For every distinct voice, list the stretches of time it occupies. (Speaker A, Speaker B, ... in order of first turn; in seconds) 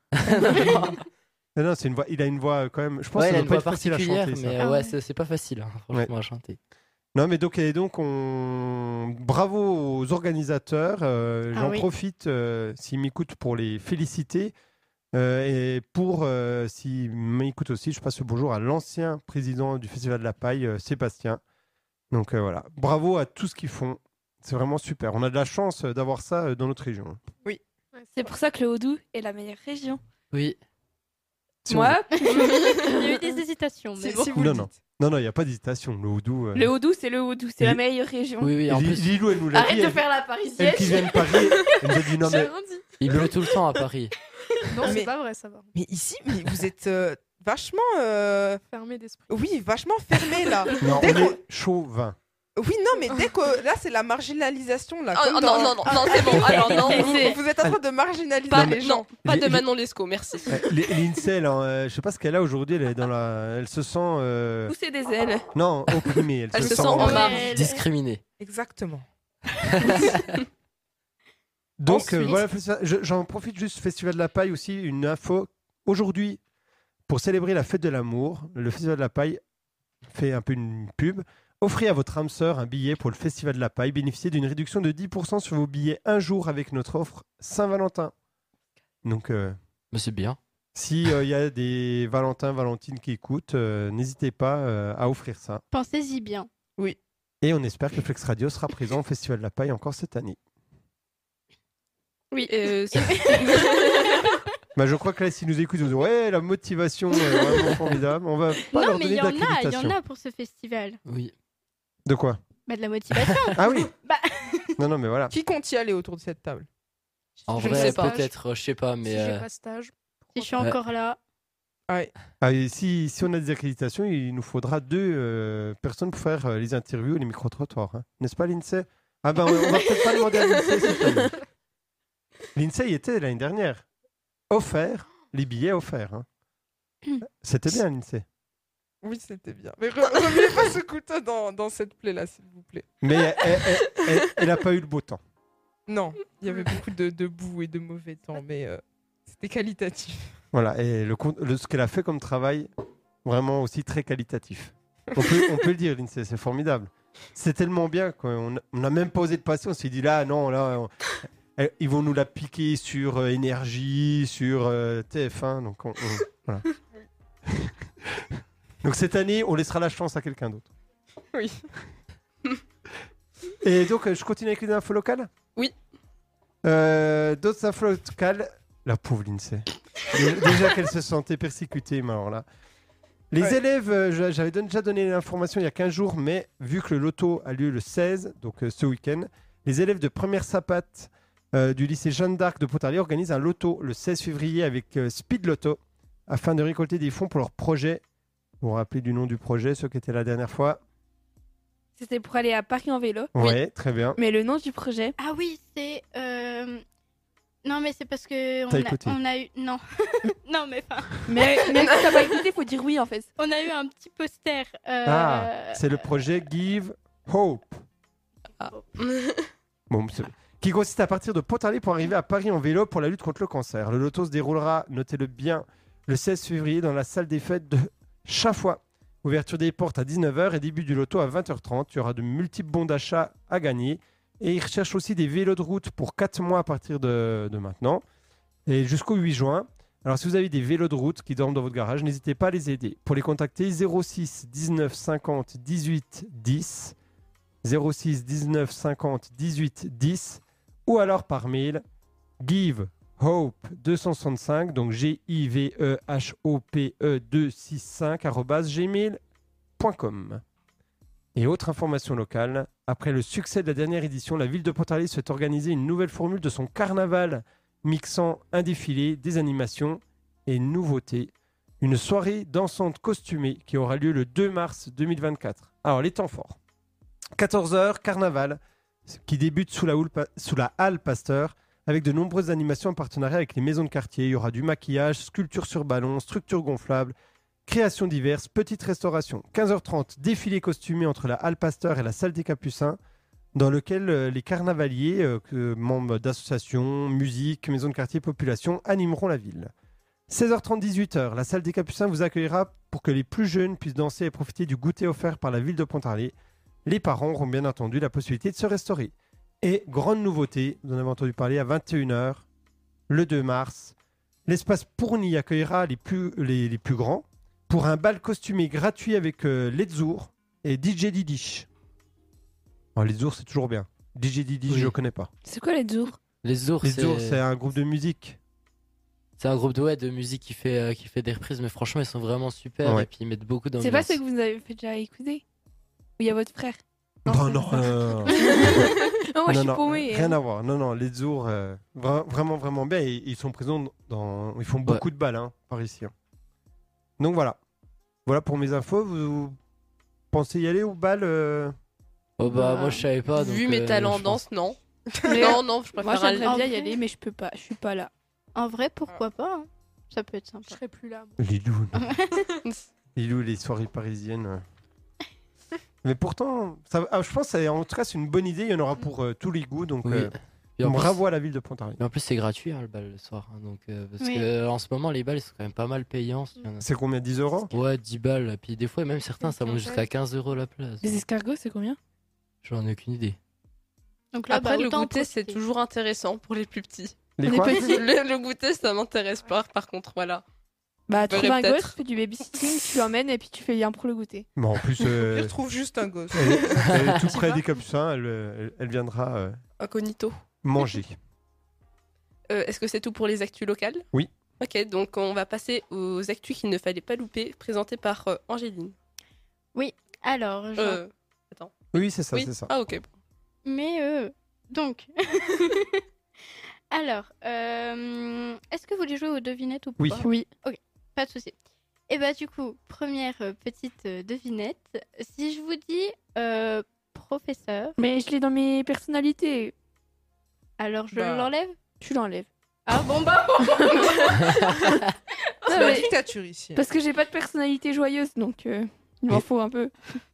Speaker A: 0.2-0.9, 3.2-6.6, 30.3-30.6, 38.4-39.1, 43.0-44.1, 67.5-68.2, 69.8-70.3, 89.9-90.4, 111.1-111.3, 113.2-113.5, 117.5-119.5, 324.7-324.9, 326.4-327.4, 329.4-334.2, 352.4-354.5, 370.1-371.2, 372.0-376.8, 377.7-381.1, 382.6-383.4
Speaker B: 0.4-0.9, 28.1-30.0, 31.7-33.1, 36.5-38.6, 39.5-41.4, 56.9-57.4, 64.7-65.5, 102.3-104.1, 202.0-203.3, 204.2-205.2, 211.3-213.3, 325.4-326.2, 333.8-335.4, 336.2-336.8, 338.3-340.4, 355.3-358.1, 381.0-382.0, 387.4-388.0, 391.1-394.5, 420.2-420.5, 428.0-429.7, 432.0-432.5, 435.7-436.1, 436.8-439.9
Speaker C: 1.6-4.6, 7.2-14.5, 15.1-21.4, 22.1-27.2, 31.7-32.0, 34.4-36.7, 38.7-40.0, 40.6-43.3, 50.8-52.2, 58.5-59.7, 60.5-64.8, 65.5-67.5, 71.8-76.4, 77.1-79.4, 80.1-88.1, 89.0-89.6, 90.8-95.6, 97.4-100.4, 104.8-110.0, 112.1-112.4, 113.6-113.9, 114.8-115.3, 122.4-131.4, 132.5-133.8, 134.5-136.3, 137.2-138.2, 143.0-145.2, 150.5-152.7, 153.2-166.7, 167.5-170.7, 173.6-175.3, 176.6-182.4, 183.3-198.0, 198.6-200.8, 203.4-204.2, 208.7-209.2, 215.1-217.8, 219.9-238.0, 238.7-246.9, 247.6-251.8, 252.4-259.2, 259.8-260.4, 261.4-276.6, 277.4-287.1, 287.7-293.0, 293.6-299.7, 300.3-306.3, 306.9-312.5, 313.1-313.9, 314.5-321.7, 323.0-325.3, 326.8-328.4, 337.3-338.9, 339.5-346.1, 347.2-347.6, 348.3-349.6, 350.3-351.8, 361.4-362.1, 363.2-364.6, 366.0-372.0, 376.8-377.7, 387.4-387.9, 394.6-395.6, 396.3-399.6, 400.6-401.2, 411.9-412.7, 420.0-420.3
Speaker D: 4.6-4.9, 11.6-11.9, 32.2-34.3, 56.5-57.4, 67.0-67.8, 71.9-72.4, 95.7-96.5, 102.9-104.4, 108.7-111.0, 112.7-114.7, 120.3-121.2, 205.2-206.8, 207.7-211.2, 213.4-216.0, 356.4-357.0, 358.6-360.8, 361.9-362.5, 374.2-374.5, 384.3-385.6, 409.8-411.0, 413.7-416.0, 416.9-421.6, 422.1-428.0, 430.8-431.8, 432.9-434.7, 435.7-436.0
Speaker E: 27.9-28.3, 42.2-42.9, 44.7-45.7, 48.7-49.3, 117.4-118.3, 119.0-120.6, 337.3-338.1, 360.7-361.4, 379.4-380.1
Speaker F: 34.0-34.8, 44.8-45.1, 45.7-48.6, 49.3-51.3, 52.6-59.1, 66.7-67.1, 68.4-69.0, 115.3-116.7, 117.7-118.1, 139.0-142.9, 145.9-150.3, 155.2-155.5, 395.1-397.5, 431.1-431.5, 435.7-436.8
Speaker G: 55.1-57.4, 58.5-60.5, 66.5-67.7, 102.5-103.7, 117.6-118.2, 218.6-219.5, 353.3-356.5, 384.5-390.4, 391.3-391.9, 399.8-400.4, 402.5-404.0, 404.6-409.0, 410.8-413.1